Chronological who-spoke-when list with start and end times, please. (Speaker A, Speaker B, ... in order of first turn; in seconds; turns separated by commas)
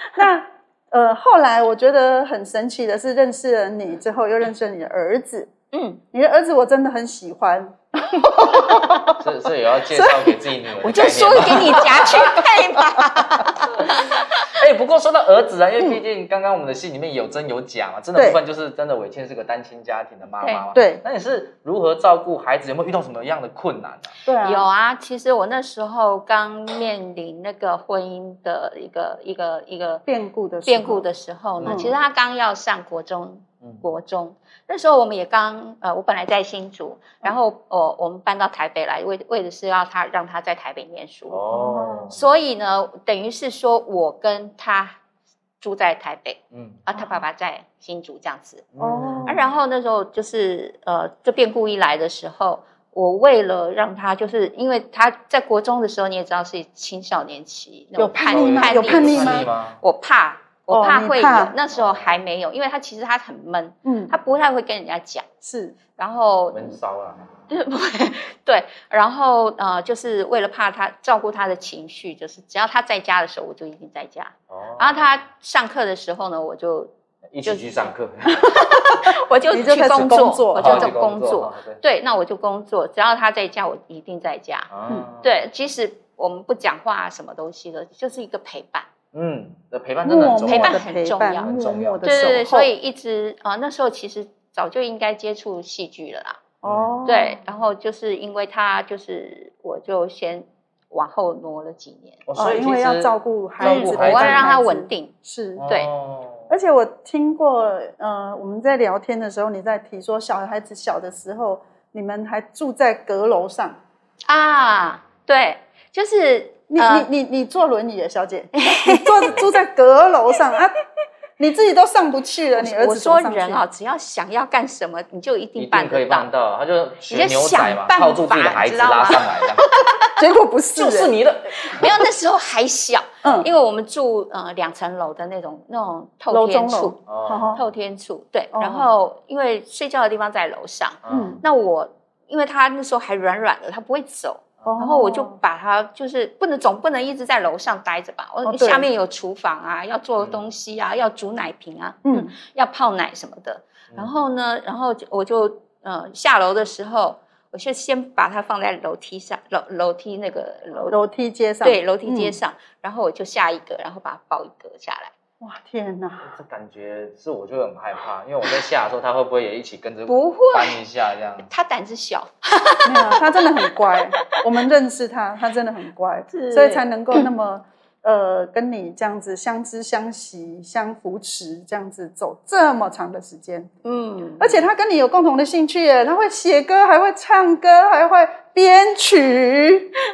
Speaker A: 0.1-5.5, Speaker B: 5.7-6.0, Speaker A: 6.1-9.2, Speaker C: 9.1-12.5, Speaker A: 9.9-10.3, Speaker B: 10.8-14.4, Speaker C: 13.8-24.1, Speaker A: 20.7-21.0, Speaker A: 24.2-24.6, Speaker B: 24.4-30.0, Speaker A: 30.1-31.0, Speaker B: 30.6-41.4, Speaker C: 31.6-31.9, Speaker A: 31.6-31.9, Speaker C: 41.3-42.2, Speaker A: 41.5-42.1, Speaker B: 42.1-45.0, Speaker B: 45.6-48.6, Speaker C: 46.5-46.8, Speaker C: 48.7-49.3, Speaker A: 48.8-49.4, Speaker B: 49.2-65.2, Speaker A: 58.0-59.5, Speaker C: 58.3-59.8, Speaker A: 60.7-61.5, Speaker C: 61.7-62.2, Speaker A: 63.8-64.1, Speaker A: 65.4-65.8, Speaker B: 66.0-66.8, Speaker C: 66.5-67.3, Speaker B: 67.5-76.9, Speaker C: 74.5-75.1, Speaker C: 77.3-78.5, Speaker B: 78.9-84.7, Speaker A: 79.5-80.9, Speaker C: 80.5-81.8, Speaker C: 84.7-85.4, Speaker B: 85.2-88.9, Speaker C: 89.1-90.8, Speaker A: 90.0-92.7, Speaker B: 90.5-91.5, Speaker C: 91.4-92.4, Speaker B: 92.0-96.4, Speaker C: 96.6-97.0, Speaker A: 96.6-97.4, Speaker B: 97.0-102.2, Speaker C: 102.3-104.5, Speaker A: 102.3-105.6, Speaker B: 103.6-105.1, Speaker C: 105.6-106.5, Speaker A: 106.5-113.8, Speaker B: 114.3-117.1, Speaker A: 116.7-120.7, Speaker B: 118.5-119.3, Speaker A: 121.4-123.6, Speaker B: 122.5-126.3, Speaker C: 125.6-129.8, Speaker B: 127.1-130.2, Speaker A: 130.2-131.1, Speaker C: 130.7-131.9, Speaker B: 131.7-137.0, Speaker A: 136.3-137.6, Speaker C: 137.1-137.6, Speaker B: 137.5-161.0, Speaker A: 138.5-138.9, Speaker C: 141.0-141.4, Speaker A: 141.1-141.4, Speaker A: 144.6-145.4, Speaker A: 148.4-148.9, Speaker A: 152.0-152.3, Speaker A: 160.9-162.3, Speaker B: 161.6-165.1, Speaker A: 165.4-166.3, Speaker C: 166.2-171.5, Speaker B: 170.1-170.8, Speaker B: 171.5-173.2, Speaker A: 172.8-183.7, Speaker B: 176.3-177.2, Speaker B: 183.8-184.5, Speaker A: 184.4-189.9